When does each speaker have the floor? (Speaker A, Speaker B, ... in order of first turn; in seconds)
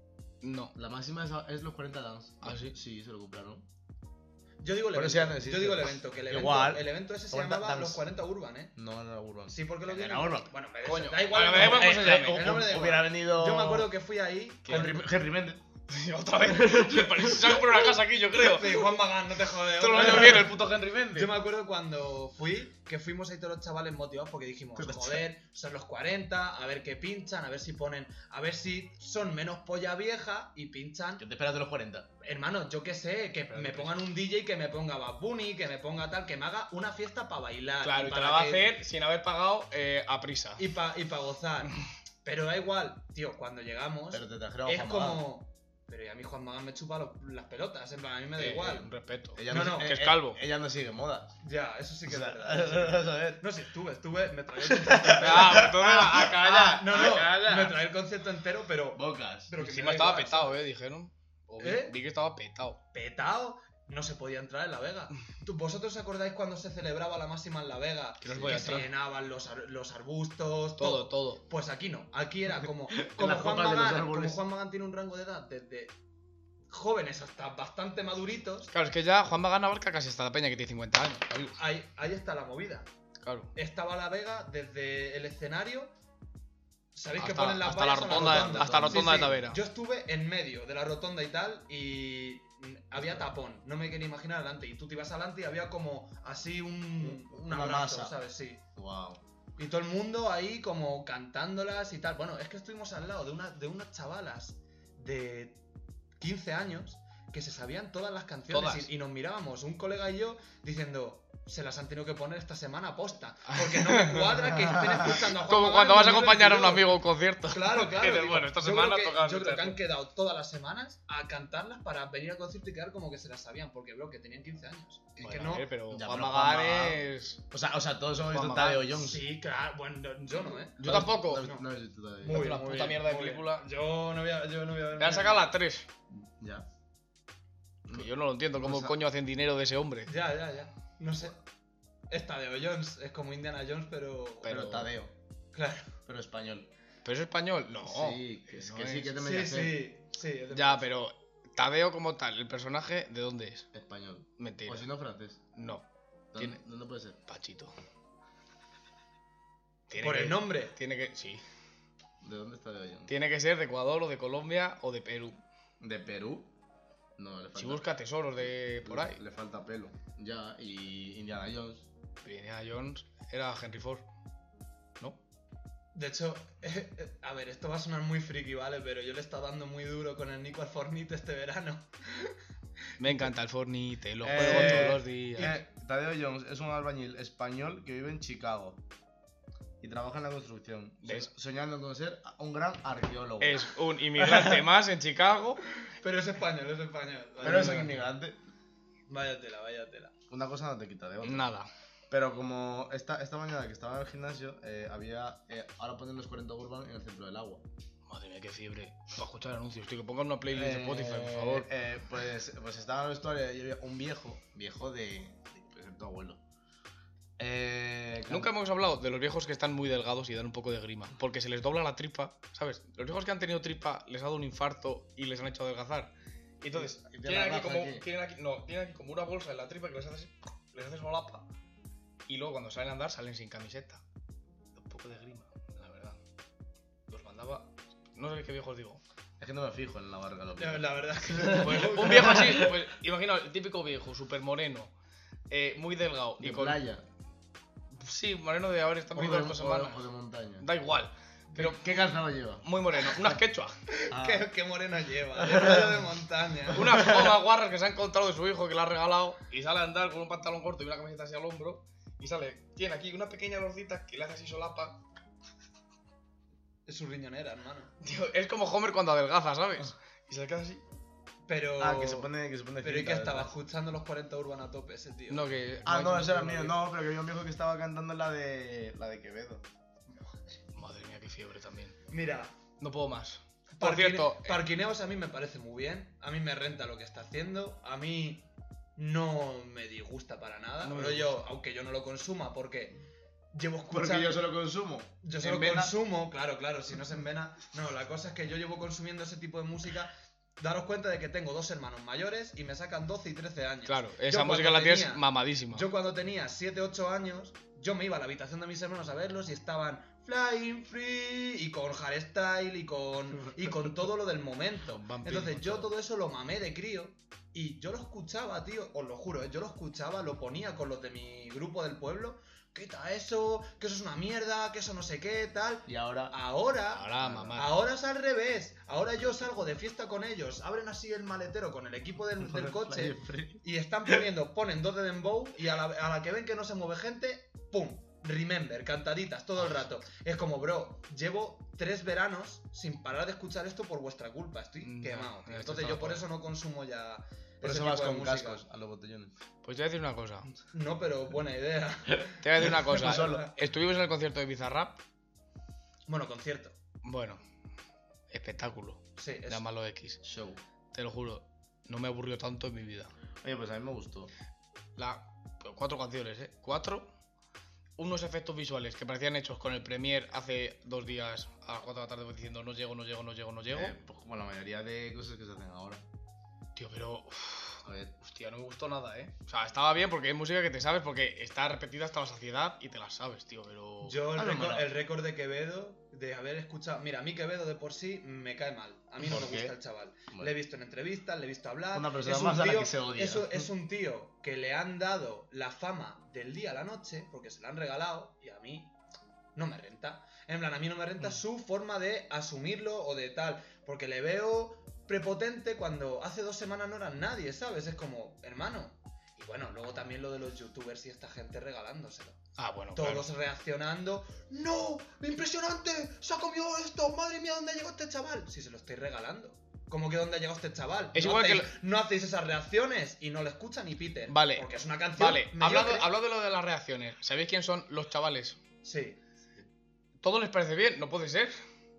Speaker A: 0.4-0.7, 2.4-2.8, 10.8-12.5, 14.6-14.9, 15.9-19.0, 19.7-21.3, 33.5-34.1, 37.8-40.6, 48.4-50.4, 55.2-57.5, 59.6-62.8, 68.2-68.9, 70.8-71.4, 78.7-81.6, 83.2-83.5, 87.2-89.6, 108.5-108.9, 113.5-114.4, 115.1-119.8, 125.2-127.4, 128.2-128.9, 130.8-131.5, 132.2-133.7, 135.0-135.9, 137.9-140.1, 144.4-144.9, 147.0-149.1, 150.5-153.7, 154.4-154.9, 155.5-156.6, 157.3-157.7, 159.9-161.4, 163.1-165.4, 167.6-169.2, 172.2-174.0, 183.0-185.6, 191.0-191.3, 193.4-195.6, 197.4-197.9, 201.2-201.7, 208.1-211.7, 218.3-231.4, 232.3-234.0, 234.7-236.2, 237.1-239.0, 241.4-244.9, 245.5-246.8, 247.9-250.1, 250.6-252.1, 252.6-253.8, 256.7-265.0, 268.0-270.8, 275.3-276.8, 280.7-282.0, 282.8-284.6, 290.8-291.4, 303.9-305.9, 314.9-315.9, 326.9-327.7, 344.8-346.2, 349.6-350.5, 352.4-355.0, 357.0-357.4, 358.3-360.2, 360.9-363.1, 365.0-367.1, 368.0-373.9, 376.8-384.2, 412.6-413.3, 421.1-421.7, 424.3-428.6, 430.2-431.6
Speaker B: 0.7-3.6, 4.9-8.0, 8.8-10.5, 11.5-13.9, 14.7-15.6, 16.5-17.9, 24.8-25.2, 31.2-32.1, 44.1-45.2, 49.3-51.4, 52.1-53.4, 54.6-57.7, 58.9-59.5, 68.3-68.8, 72.9-74.4, 88.1-89.4, 93.0-93.3, 97.0-98.2, 98.8-99.2, 125.9-129.2, 130.8-132.6, 136.1-136.7, 137.8-139.0, 144.4-145.1, 146.1-146.7, 147.8-149.8, 153.7-155.4, 156.3-157.2, 162.2-163.1, 165.8-166.5, 167.2-167.8, 168.4-171.9, 184.2-188.8, 189.8-194.6, 197.4-198.4, 200.3-201.5, 202.1-207.6, 210.5-216.4, 217.4-218.5, 226.7-228.1, 239.4-242.8, 246.4-247.0, 249.1-250.7, 251.6-252.7, 254.1-254.4, 255.4-255.9, 256.8-257.4, 271.8-273.5, 275.8-279.6, 293.9-295.9, 325.9-326.3, 327.2-327.6, 332.4-334.1, 347.6-349.3, 352.6-353.5, 360.2-360.6, 363.4-364.3, 373.7-376.0, 377.8-378.1, 384.3-384.9, 389.2-389.7, 391.9-393.7
Speaker C: 4.6-8.7, 9.5-15.0, 18.4-20.6, 21.1-31.2, 32.2-38.7, 40.6-48.9, 49.5-49.9, 51.4-55.7, 56.6-60.6, 61.6-61.9, 62.9-75.9, 76.7-78.7, 81.5-82.9, 83.5-85.9, 86.9-98.6, 99.6-105.6, 106.2-116.9, 117.5-125.7, 128.9-130.8, 131.4-131.7, 132.2-135.5, 140.1-141.4, 142.1-144.6, 145.5-145.9, 149.2-150.9, 160.0-160.7, 175.9-182.3, 183.0-183.3, 184.3-185.6, 196.0-197.9, 199.1-200.1, 240.6-242.5, 253.9-256.9, 266.9-267.9, 271.5-272.3, 272.8-275.5, 280.1-280.6, 282.1-282.5, 283.8-288.4, 289.0-292.9, 293.5-294.4, 295.2-348.6, 350.7-353.5, 356.1-356.7, 359.2-359.6, 384.0-398.9, 399.5-412.4, 412.9-426.1, 428.8-429.2